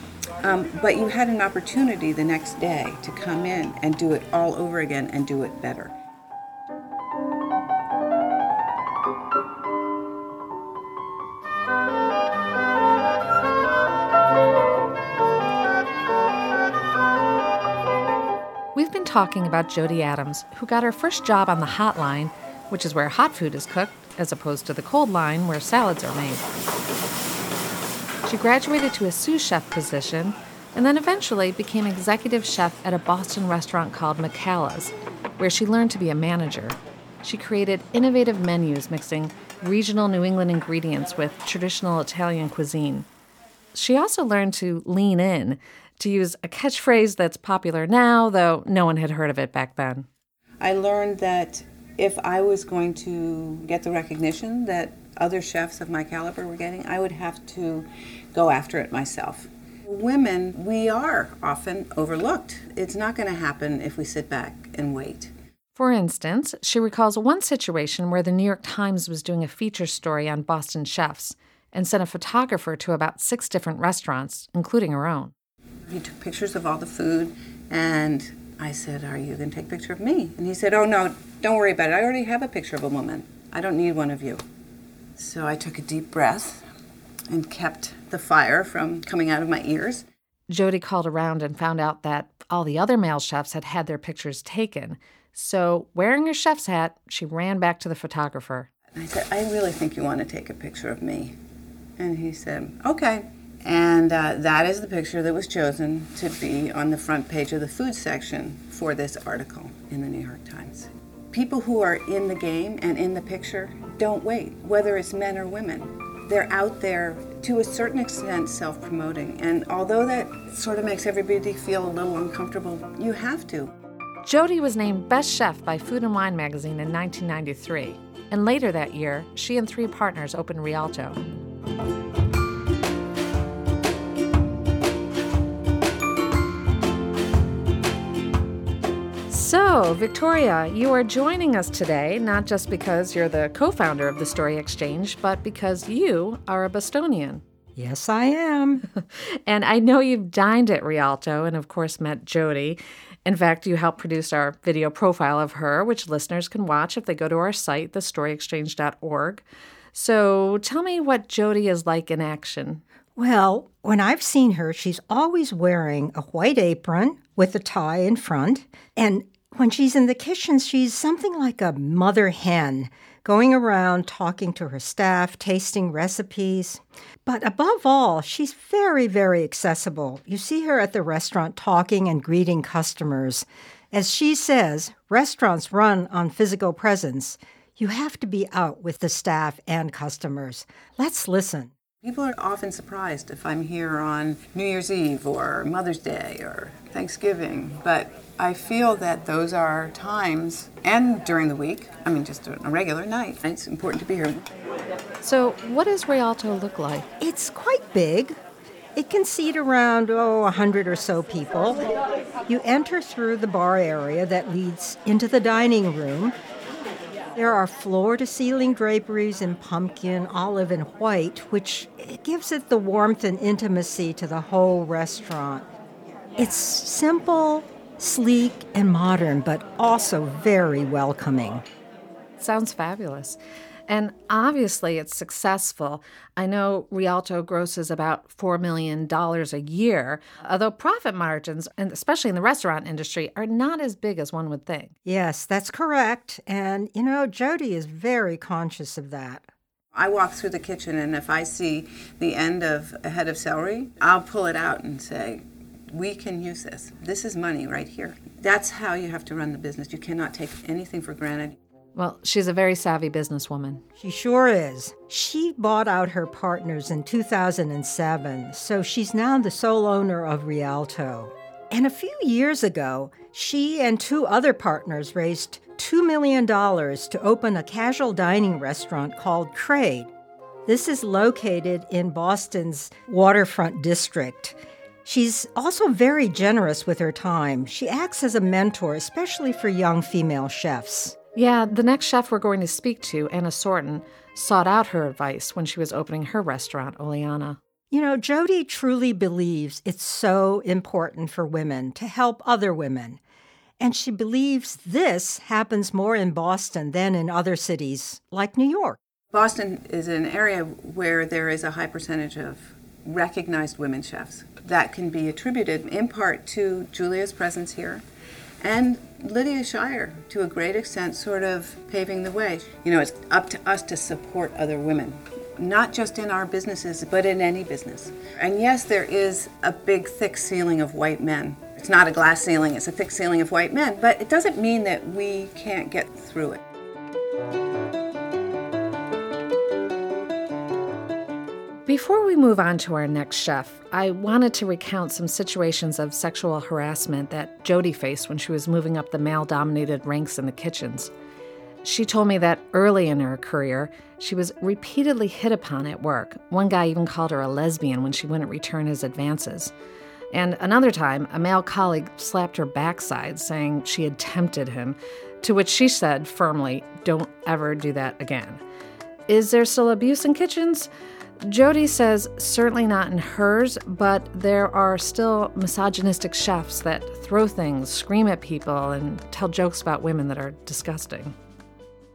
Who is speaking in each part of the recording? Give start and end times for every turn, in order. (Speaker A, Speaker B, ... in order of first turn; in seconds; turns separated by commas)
Speaker A: 0.4-5.9, Speaker B: 18.7-26.4, Speaker B: 28.2-43.1, Speaker B: 43.7-50.1, Speaker A: 50.6-65.3, Speaker B: 65.8-75.3, Speaker A: 75.8-84.4, Speaker A: 85.2-86.6, Speaker A: 87.3-90.0, Speaker B: 90.5-98.7, Speaker A: 98.9-101.3, Speaker A: 102.0-123.7, Speaker B: 124.2-131.2, Speaker B: 139.3-147.4, Speaker C: 147.8-148.8, Speaker B: 148.9-162.8, Speaker C: 163.2-191.7, Speaker A: 192.0-204.5, Speaker B: 205.2-207.1, Speaker C: 207.2-208.3, Speaker C: 208.9-211.8, Speaker C: 212.4-216.3, Speaker C: 217.3-225.7, Speaker C: 226.3-231.6, Speaker B: 232.4-244.9, Speaker C: 245.0-249.4, Speaker A: 249.9-261.6, Speaker B: 261.9-263.8, Speaker C: 264.0-280.1, Speaker C: 280.6-291.2, Speaker B: 291.3-297.6, Speaker C: 297.9-303.2, Speaker C: 303.8-309.0, Speaker A: 309.3-318.0, Speaker A: 318.6-336.6, Speaker B: 341.9-351.1, Speaker B: 351.8-359.7, Speaker B: 360.3-368.6, Speaker B: 369.3-370.9, Speaker B: 371.4-381.3